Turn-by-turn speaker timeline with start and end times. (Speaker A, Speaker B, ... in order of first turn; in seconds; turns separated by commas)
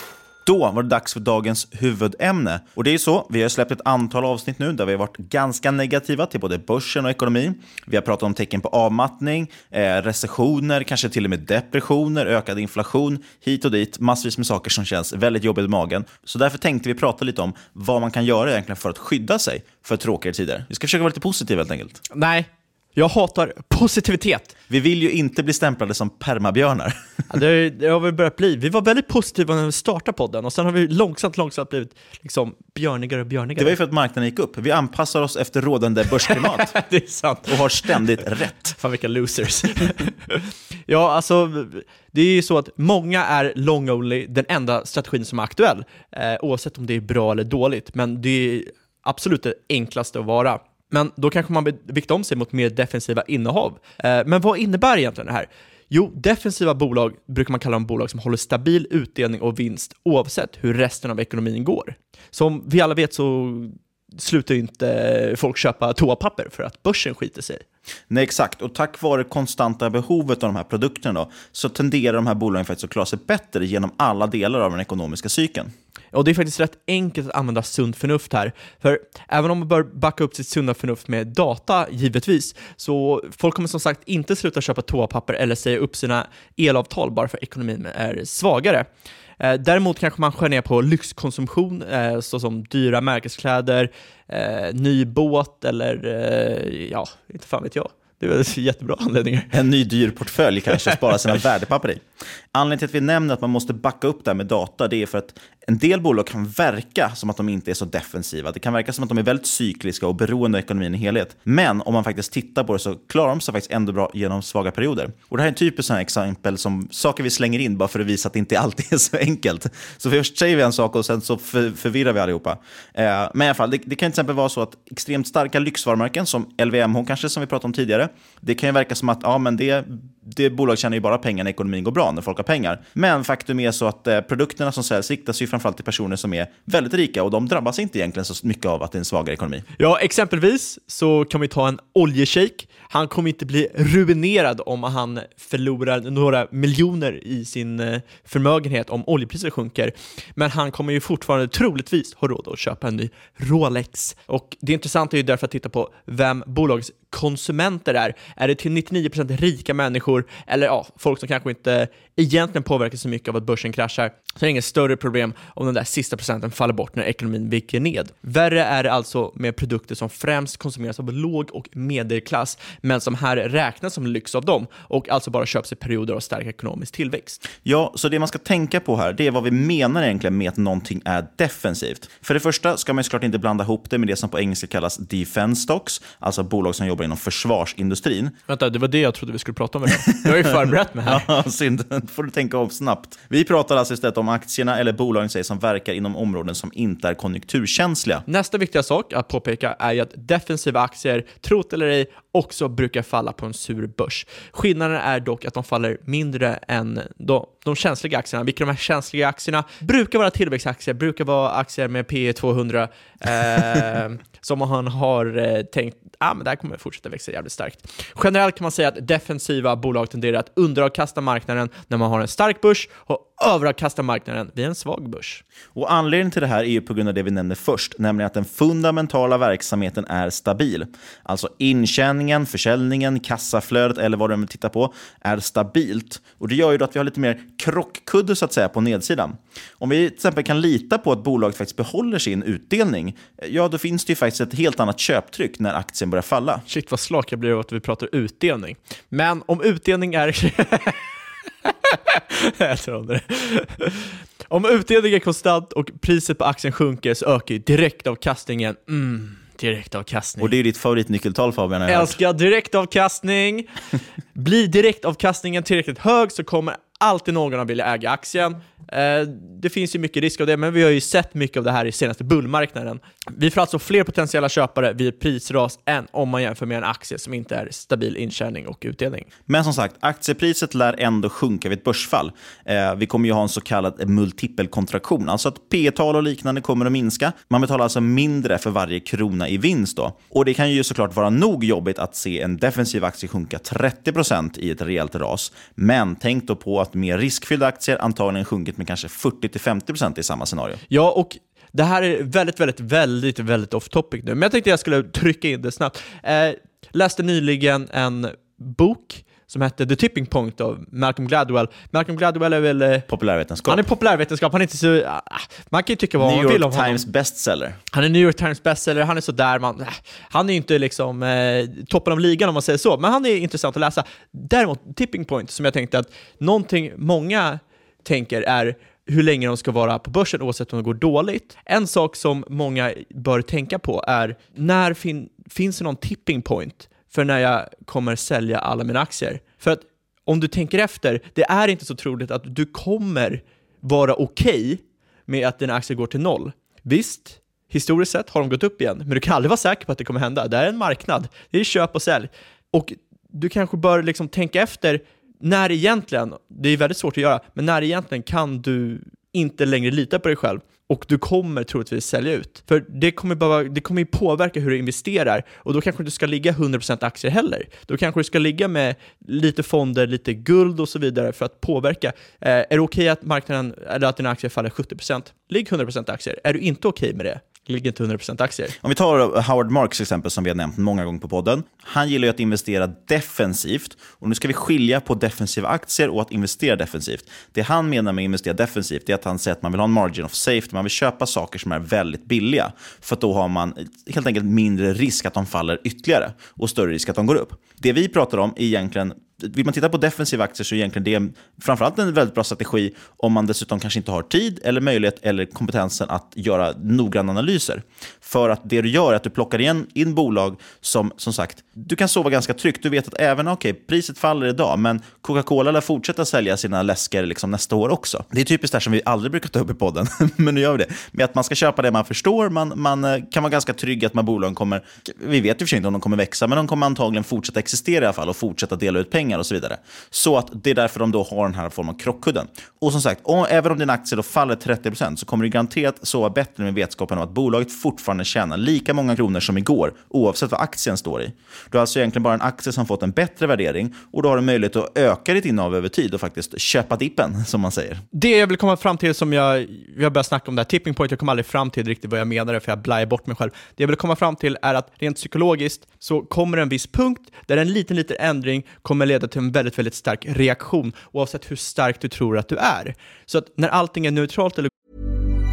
Speaker A: 0.4-22.0, Speaker B: 22.1-24.5, Speaker A: 24.7-27.0, Speaker B: 27.3-33.7, Speaker A: 33.6-36.8, Speaker B: 36.3-37.5, Speaker A: 37.5-38.8, Speaker B: 38.8-67.6, Speaker A: 68.1-75.7, Speaker B: 76.1-88.9, Speaker B: 89.4-99.5, Speaker A: 99.5-139.7, Speaker B: 139.8-177.4, Speaker A: 177.6-188.3, Speaker B: 188.5-191.2, Speaker A: 190.2-198.2, Speaker B: 198.3-225.4, Speaker A: 225.7-246.6, Speaker B: 246.7-251.0, Speaker B: 251.6-260.5, Speaker A: 260.4-262.2, Speaker B: 261.9-263.7, Speaker B: 264.4-279.3, Speaker A: 279.5-300.8, Speaker B: 300.9-313.1, Speaker A: 313.1-313.8, Speaker B: 313.6-317.0, Speaker A: 316.2-317.8, Speaker B: 317.9-378.7, Speaker A: 378.8-448.0, Speaker B: 448.1-464.7